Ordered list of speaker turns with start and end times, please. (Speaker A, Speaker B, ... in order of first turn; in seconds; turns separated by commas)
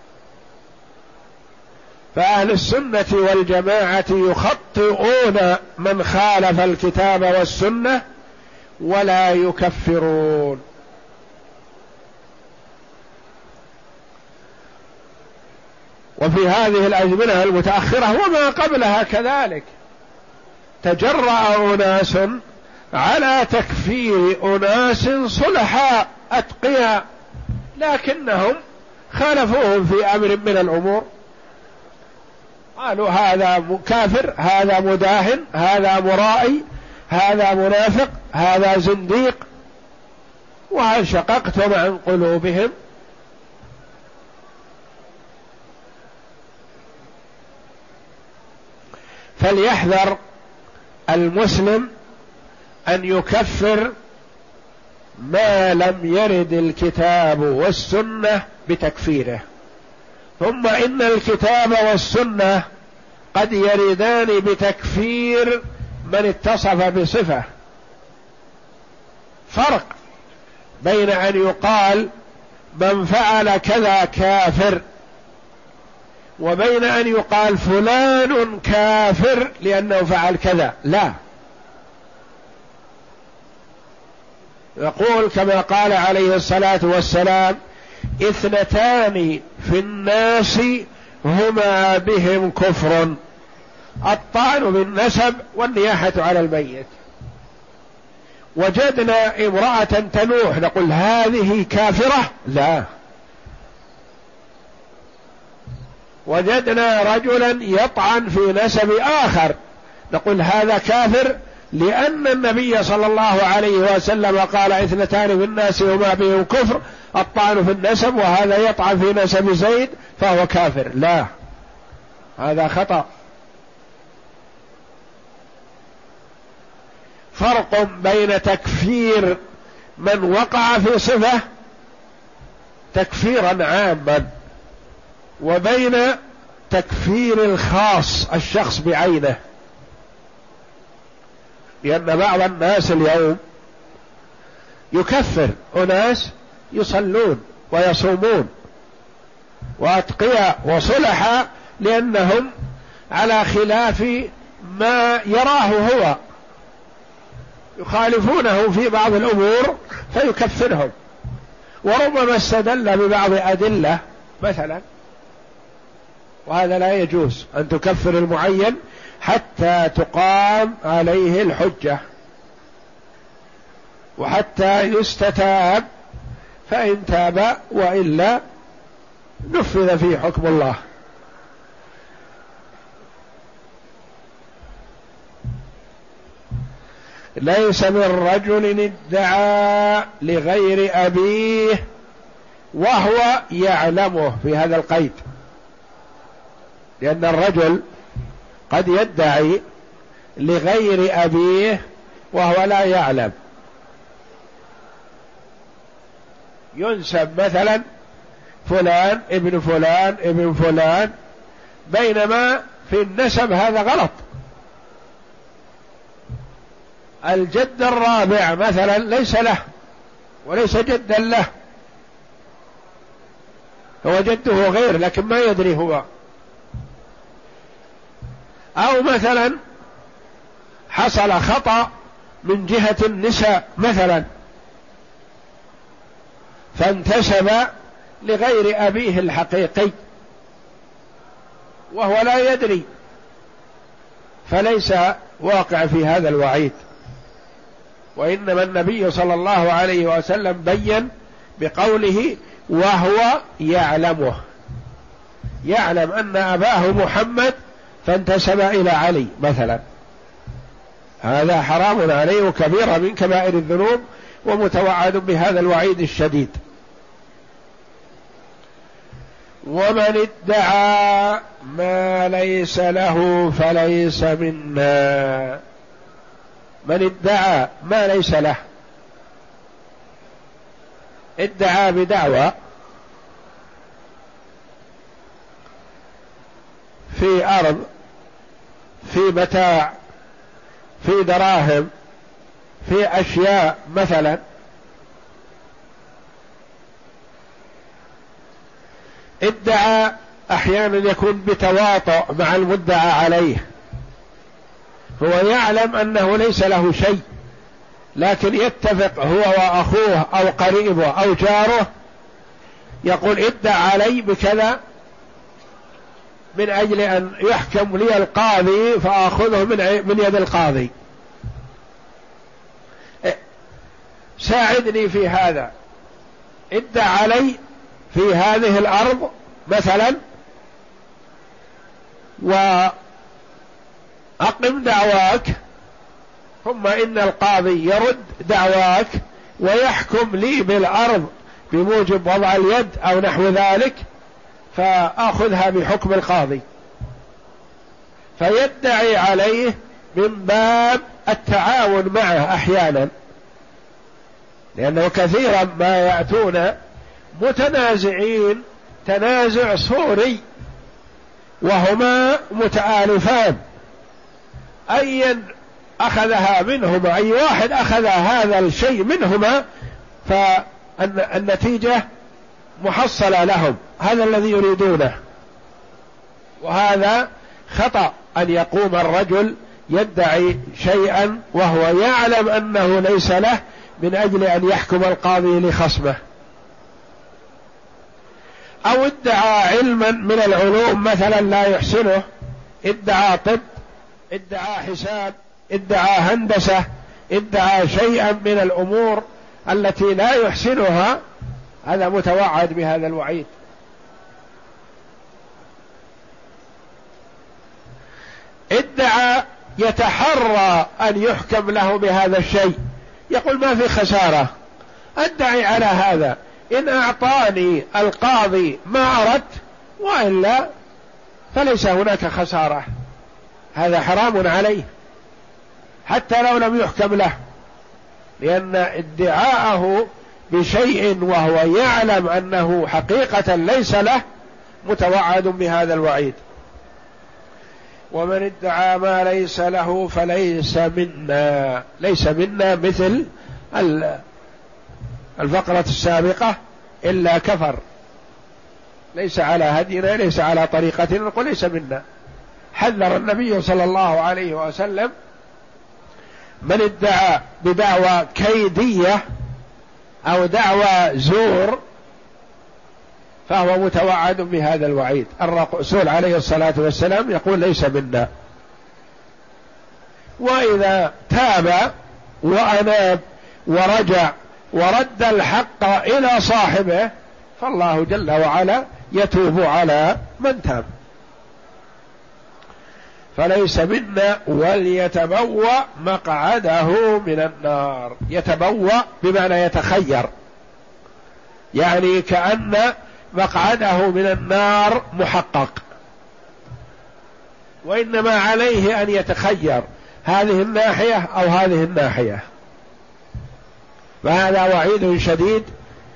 Speaker A: 2.1-8.0, Speaker A: 8.8-10.6, Speaker A: 16.2-19.7, Speaker A: 20.8-22.4, Speaker A: 22.9-27.0, Speaker A: 27.8-28.6, Speaker A: 29.1-31.1, Speaker A: 32.8-39.4, Speaker A: 40.7-42.7, Speaker A: 49.4-50.2, Speaker A: 51.1-51.9, Speaker A: 52.9-53.9, Speaker A: 55.2-59.4, Speaker A: 60.4-62.6, Speaker A: 63.3-67.5, Speaker A: 69.5-69.9, Speaker A: 70.8-72.1, Speaker A: 72.8-74.8, Speaker A: 76.4-81.2, Speaker A: 84.8-87.6, Speaker A: 88.2-93.2, Speaker A: 94.1-96.9, Speaker A: 98.6-102.9, Speaker A: 106.3-109.6, Speaker A: 110.1-121.3, Speaker A: 122.4-123.1, Speaker A: 127.3-129.4, Speaker A: 130.0-131.4, Speaker A: 132.9-134.3, Speaker A: 135.4-136.2, Speaker A: 136.7-139.4, Speaker A: 141.8-143.4, Speaker A: 144.9-148.5, Speaker A: 149.8-152.5, Speaker A: 153.1-156.2, Speaker A: 157.8-160.9, Speaker A: 161.8-164.8, Speaker A: 166.5-172.0, Speaker A: 174.2-175.8, Speaker A: 176.7-178.4, Speaker A: 179.5-180.8, Speaker A: 187.4-191.8, Speaker A: 192.7-195.2, Speaker A: 197.0-197.8, Speaker A: 198.7-199.6, Speaker A: 200.4-201.8, Speaker A: 202.3-203.3, Speaker A: 206.8-207.8, Speaker A: 208.7-211.1, Speaker A: 211.9-214.2, Speaker A: 217.2-219.6, Speaker A: 220.4-221.5, Speaker A: 224.0-226.0, Speaker A: 228.8-229.6, Speaker A: 230.9-231.9, Speaker A: 232.4-234.3, Speaker A: 236.8-237.7, Speaker A: 238.2-239.9, Speaker A: 241.9-242.9, Speaker A: 244.5-246.8, Speaker A: 248.2-251.1, Speaker A: 251.6-254.4, Speaker A: 255.7-259.8, Speaker A: 261.2-266.6, Speaker A: 269.7-275.6, Speaker A: 276.9-278.6, Speaker A: 281.4-282.5, Speaker A: 287.1-287.9, Speaker A: 289.0-289.9, Speaker A: 291.0-291.9, Speaker A: 292.8-294.4, Speaker A: 299.4-303.6, Speaker A: 305.2-307.2, Speaker A: 308.2-311.9, Speaker A: 313.1-314.8, Speaker A: 316.6-320.9, Speaker A: 324.4-325.7, Speaker A: 326.7-327.6, Speaker A: 328.1-330.2, Speaker A: 332.4-332.9, Speaker A: 334.4-335.5, Speaker A: 336.6-344.0, Speaker A: 344.7-346.6, Speaker A: 348.4-353.1, Speaker A: 354.8-356.8, Speaker A: 357.4-360.4, Speaker A: 361.6-363.6, Speaker A: 364.9-365.4, Speaker A: 366.0-369.6, Speaker A: 370.2-372.0, Speaker A: 372.8-375.1, Speaker A: 376.6-386.2, Speaker A: 388.9-392.2, Speaker A: 392.9-393.6, Speaker A: 394.3-401.2, Speaker A: 401.9-403.5, Speaker A: 408.7-412.8, Speaker A: 413.3-414.5, Speaker A: 415.2-420.7, Speaker A: 421.5-422.9, Speaker A: 423.8-424.9, Speaker A: 426.1-427.4, Speaker A: 428.4-434.2, Speaker A: 434.9-436.4, Speaker A: 438.1-444.2, Speaker A: 445.4-447.8, Speaker A: 449.1-452.0, Speaker A: 452.8-455.1, Speaker A: 456.6-459.2, Speaker A: 460.3-461.8, Speaker A: 463.5-468.3, Speaker A: 470.4-471.9, Speaker A: 472.4-480.9, Speaker A: 483.4-490.3, Speaker A: 491.8-495.8, Speaker A: 497.9-502.4, Speaker A: 504.2-505.7